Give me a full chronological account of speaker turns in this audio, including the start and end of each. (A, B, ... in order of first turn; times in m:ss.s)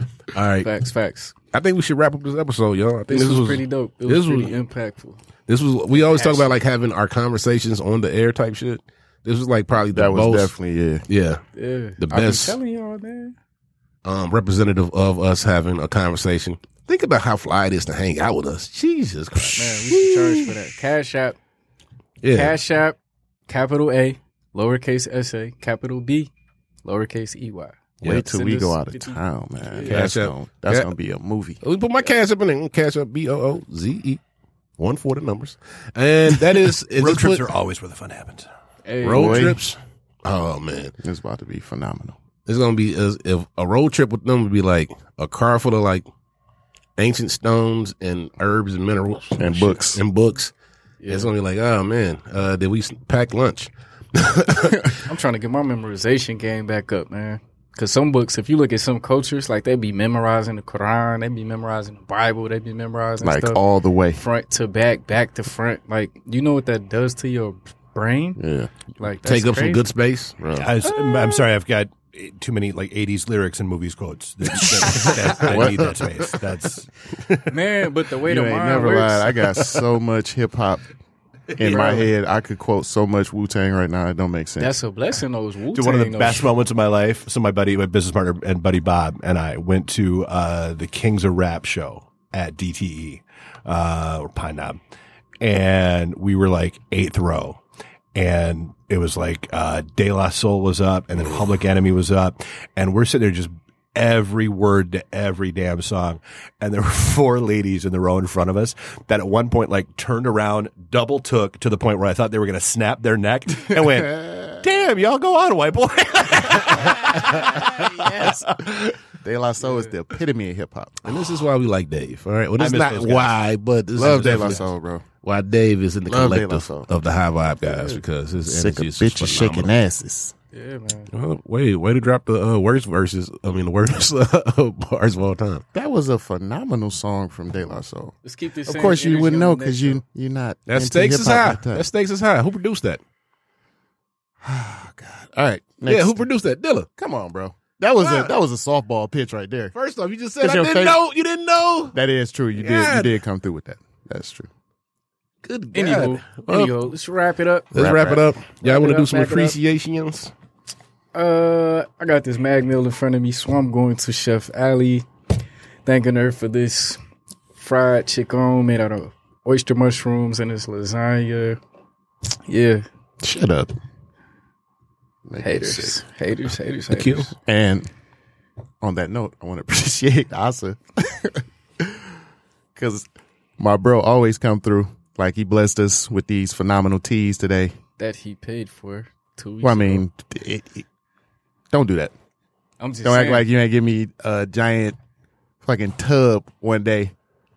0:00.3-0:00.7 A
0:00.6-0:01.3 B
0:01.5-0:04.6 A
0:03.1-0:05.2 B
0:05.5-0:10.5 A
0:05.9-0:06.5 B
0:09.9-0:11.0 C
0:11.1-0:11.4 A
0:11.6-0:13.3 B
0:12.0-0:12.6 A
0:14.0-0:20.5 A
0:19.4-0:21.4 B
0:22.2-0:22.6 A
0:22.3-0:23.0 B
0:23.5-0:26.3 B
0:26.8-0:30.0 B
0:28.0-0:31.6 C
0:29.9-0:30.9 A
0:31.6-0:34.2 A
0:34.8-0:37.5 A
0:37.0-0:38.5 D
0:38.9-0:39.5 B
0:39.0-0:41.0 A
0:39.0-0:39.6 C
0:41.0-0:42.2 C
0:42.5-0:46.0 A
0:47.0-0:50.5 A
0:49.4-0:50.0 C
0:51.0-0:51.3 B
0:51.0-0:55.0 A
0:55.0-1:03.6 B
1:03.2-1:04.2 C
1:04.1-1:08.4 B
1:08.4-1:08.7 C
1:09.0-1:09.8 B
1:09.2-1:10.4 A
1:10.4-1:10.7 C
1:10.5-1:16.9 D
1:10.9-1:11.3 B
1:15.4-1:15.9 C
1:15.5-1:15.8 A
1:17.5-1:19.4 B
1:18.2-1:20.8 C
1:21.5-1:24.7 C
1:21.6-1:22.1 B
1:24.6-1:26.5 B
1:25.7-1:34.8 D
1:35.4-1:37.6 D
1:38.1-1:58.4 D
1:53.9-1:54.4 C
1:57.3-2:01.1 C
2:01.0-2:04.6 A
2:02.6-2:03.4 D
2:04.0-2:05.0 C
2:04.0-2:04.6 D
2:05.2-2:09.7 A
2:06.1-2:06.9 C
2:07.7-2:10.3 C
2:10.5-2:11.1 B
2:11.1-2:15.6 A
2:15.7-2:18.1 C
2:18.2-2:20.0 B
2:18.6-2:21.9 C
2:20.7-2:23.0 A
2:24.4-2:26.2 C
2:25.9-2:26.9 A
2:27.0-2:29.7 C
2:28.0-2:28.3 A
2:29.7-2:32.0 A
2:30.4-2:31.0 C
2:31.9-2:34.5 C
2:32.6-2:33.1 A
2:35.4-2:36.8 A
2:35.7-2:39.6 B
2:37.7-2:40.3 A
2:37.8-2:38.2 C
2:41.1-2:45.1 B
2:45.9-2:47.0 B
2:47.6-2:51.6 B
2:52.5-2:52.8 B
2:53.2-2:53.7 C
2:55.3-2:56.0 C
2:55.4-2:57.3 B
2:56.9-2:57.3 A
2:57.4-2:57.9 C
2:58.8-3:02.0 C
3:02.7-3:07.8 C
3:08.0-3:10.0 B
3:09.6-3:10.9 C
3:11.7-3:12.1 C
3:12.8-3:13.4 B
3:13.0-3:15.0 C
3:15.6-3:17.1 C